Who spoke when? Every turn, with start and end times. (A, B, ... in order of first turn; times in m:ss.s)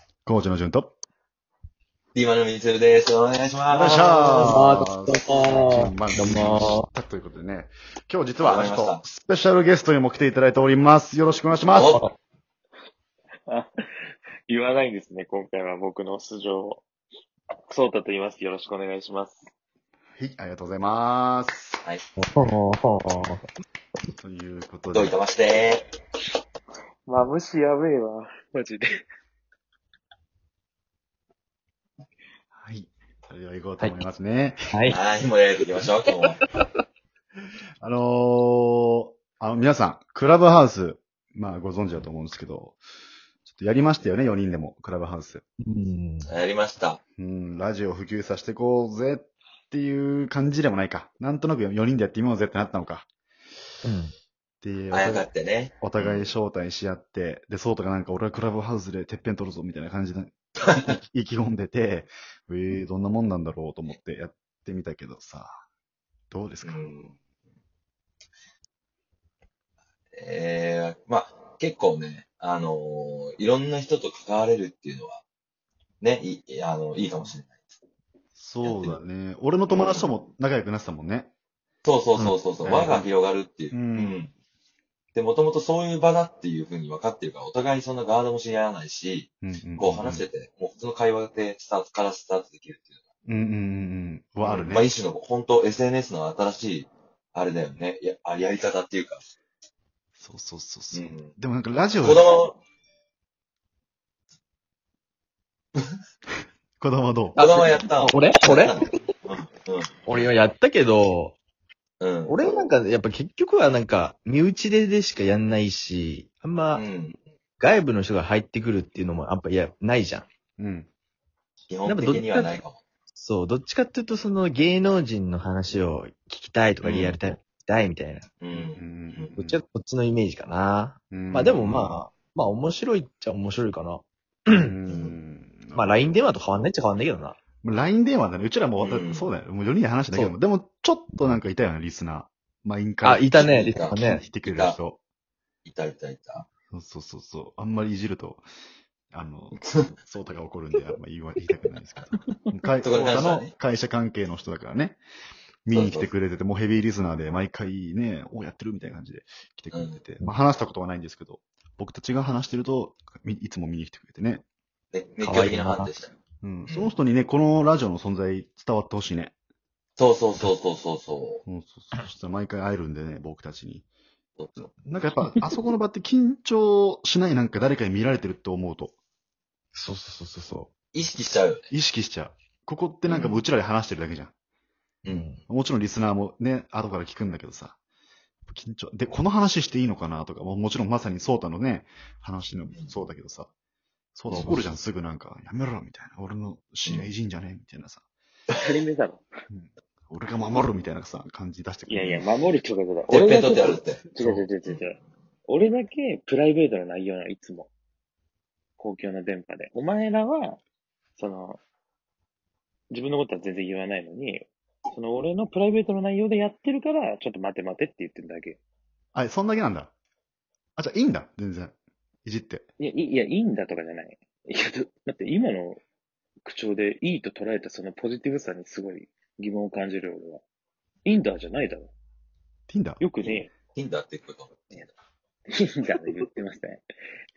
0:00.2-0:00.9 A
0:02.1-0:04.6 B
0:03.7-0:12.0 A
0:04.3-0:06.8 C
0:08.4-0:09.0 B
0:11.7-0:12.0 B
0:14.5-0:16.8 D
0:17.7-0:19.5 D
0:20.2-0:21.8 A
0:22.2-0:23.4 C
0:24.2-0:25.2 A
0:24.9-0:25.8 B
0:27.0-0:28.9 D
0:32.5-0:34.8 A
0:34.7-0:35.0 C
0:34.9-0:36.4 B
0:37.8-0:42.8 A
0:43.4-0:45.4 A
0:45.6-0:46.3 C
0:46.2-0:47.0 B
0:47.2-0:53.0 A
0:53.8-0:54.1 C
0:54.6-1:05.6 A
0:54.9-0:56.3 B
1:06.3-1:06.9 A
1:06.6-1:07.1 B
1:10.1-1:15.2 B
1:16.0-1:17.6 B
1:18.3-1:21.3 A
1:18.6-1:19.0 B
1:19.7-1:20.1 B
1:21.8-1:24.3 B
1:22.6-1:23.1 A
1:23.7-1:24.2 A
1:25.1-1:32.9 B
1:29.4-1:30.3 A
1:33.2-1:35.0 A
1:34.4-1:39.2 B
1:40.2-1:42.3 A
1:40.9-1:41.3 B
1:42.0-1:42.6 B
1:46.8-1:47.4 A
1:47.4-1:48.8 C
1:47.4-1:50.3 B
1:50.0-1:51.4 C
1:52.0-1:52.5 B
1:52.3-1:56.8 C
1:56.7-1:57.2 B
1:57.6-2:00.2 C
2:00.6-2:00.9 A
2:01.7-2:02.8 B
2:01.8-2:02.6 C
2:03.2-2:08.3 C
2:06.8-2:07.2 B
2:08.4-2:09.3 B
2:08.5-2:09.6 A
2:09.4-2:14.7 C
2:11.1-2:12.0 A
2:14.5-2:16.1 A
2:14.9-2:15.2 B
2:15.7-2:17.4 C
2:17.6-2:25.0 A
2:18.8-2:19.3 B
2:23.0-2:24.2 C
2:23.3-2:24.8 B
2:25.6-2:26.4 B
2:26.7-2:28.4 A
2:29.1-2:35.0 A
2:29.6-2:29.9 B
2:32.8-2:33.5 B
2:35.6-2:44.4 A
2:35.7-2:36.1 B
2:39.7-2:40.0 B
2:44.9-2:46.1 B
2:45.2-2:45.9 C
2:46.4-2:49.3 A
2:46.7-2:46.9 B
2:50.0-2:51.4 B
2:51.4-2:53.9 A
2:54.4-2:54.7 B
2:54.6-2:59.0 A
2:59.7-3:00.7 C
3:00.9-3:01.7 B
3:01.7-3:04.3 A
3:03.1-3:03.4 B
3:05.0-3:05.4 B
3:05.0-3:05.4 C
3:05.5-3:07.8 A
3:08.5-3:13.5 A
3:14.1-3:18.0 A
3:14.3-3:14.7 C
3:16.8-3:17.1 B
3:18.6-3:19.2 D
3:19.5-3:22.2 A
3:21.9-3:27.7 D
3:23.1-3:24.1 B
3:28.8-3:30.6 D
3:31.2-3:31.6 D
3:32.9-3:38.6 D
3:39.1-3:39.9 A
3:40.8-3:42.6 A
3:42.8-3:45.8 D
3:46.4-3:50.4 D
3:51.0-3:51.9 D
3:52.7-3:53.0 A
3:53.0-3:53.5 D
3:53.2-3:54.9 B
3:55.5-3:56.8 D